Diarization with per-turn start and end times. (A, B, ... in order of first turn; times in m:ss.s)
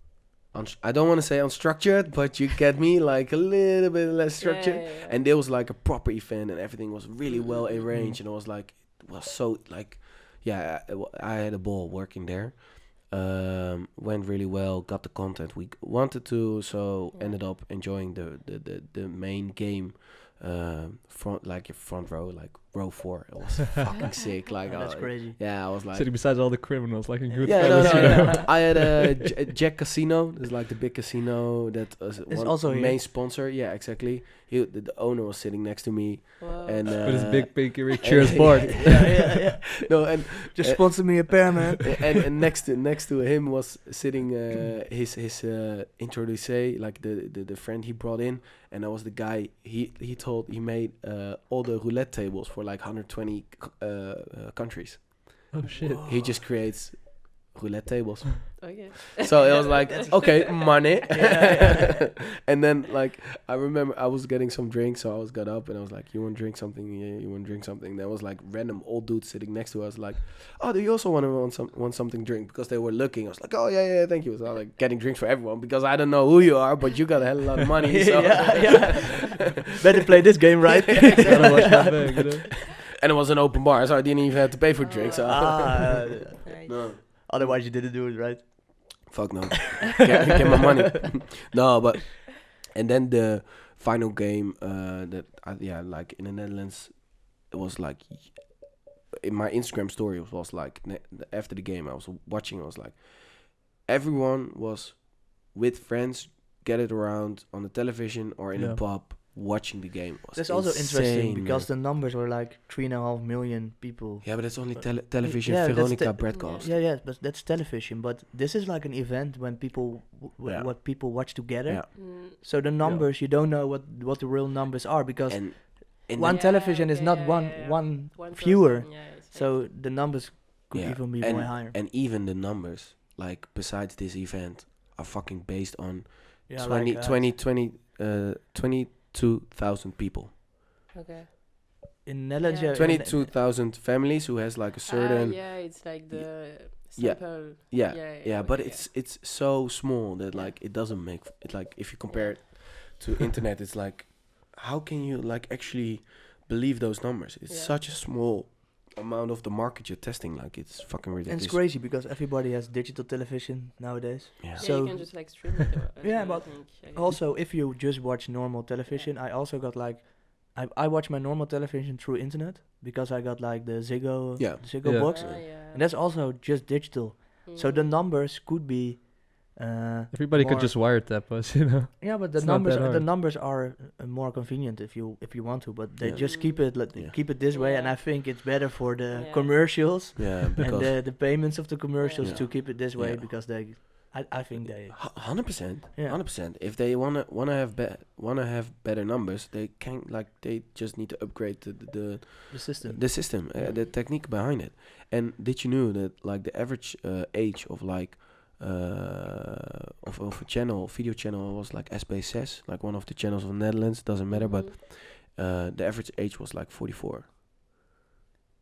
0:00.5-0:26.2 A
0:04.4-0:05.2 B
0:07.3-0:07.8 B
0:07.9-0:08.2 C
0:17.1-0:17.4 B
0:24.0-0:24.3 B
0:24.6-0:25.4 D
0:25.9-0:29.1 C
0:27.3-0:28.5 D
0:27.4-0:39.3 A
0:32.3-0:33.0 D
0:36.4-0:37.4 B
0:37.0-0:39.2 C
0:38.7-0:42.1 D
0:39.8-1:19.5 A
0:55.5-0:56.1 C
0:55.7-0:56.3 D
0:58.6-1:02.0 B
1:01.1-1:02.0 D
1:17.9-1:22.4 D
1:21.0-1:22.1 A
1:21.2-1:22.6 C
1:22.7-1:27.6 A
1:24.8-1:27.2 B
1:25.1-1:29.1 D
1:29.1-1:51.7 A
1:48.5-1:48.8 C
1:50.3-2:11.8 D
1:54.2-1:56.8 A
1:56.3-1:56.7 B
2:00.4-2:03.1 A
2:01.9-2:02.4 B
2:05.3-2:06.5 A
2:06.3-2:09.6 B
2:10.7-2:20.3 A
2:16.5-2:17.3 D
2:20.9-2:21.3 B
2:22.0-2:23.3 D
2:22.4-2:23.0 B
2:22.7-2:41.6 A
2:24.9-2:28.9 B
2:30.3-2:30.6 B
2:32.1-2:32.6 B
2:37.5-2:37.8 B
2:41.3-3:00.8 D
2:44.4-2:44.8 A
2:44.6-2:47.2 B
2:54.4-2:55.4 A
2:54.8-2:55.1 C
2:55.1-2:55.9 B
2:57.4-2:58.0 B
3:00.1-3:03.0 C
3:02.0-3:16.2 D
3:06.0-3:07.1 A
3:06.2-3:06.7 B
3:07.3-3:08.2 B
3:09.1-3:09.8 B
3:10.2-3:11.1 A
3:12.0-3:12.6 B
3:12.2-3:13.8 A
3:14.9-3:37.3 A
3:22.5-3:23.3 D
3:23.6-3:23.9 B
3:34.3-3:34.7 B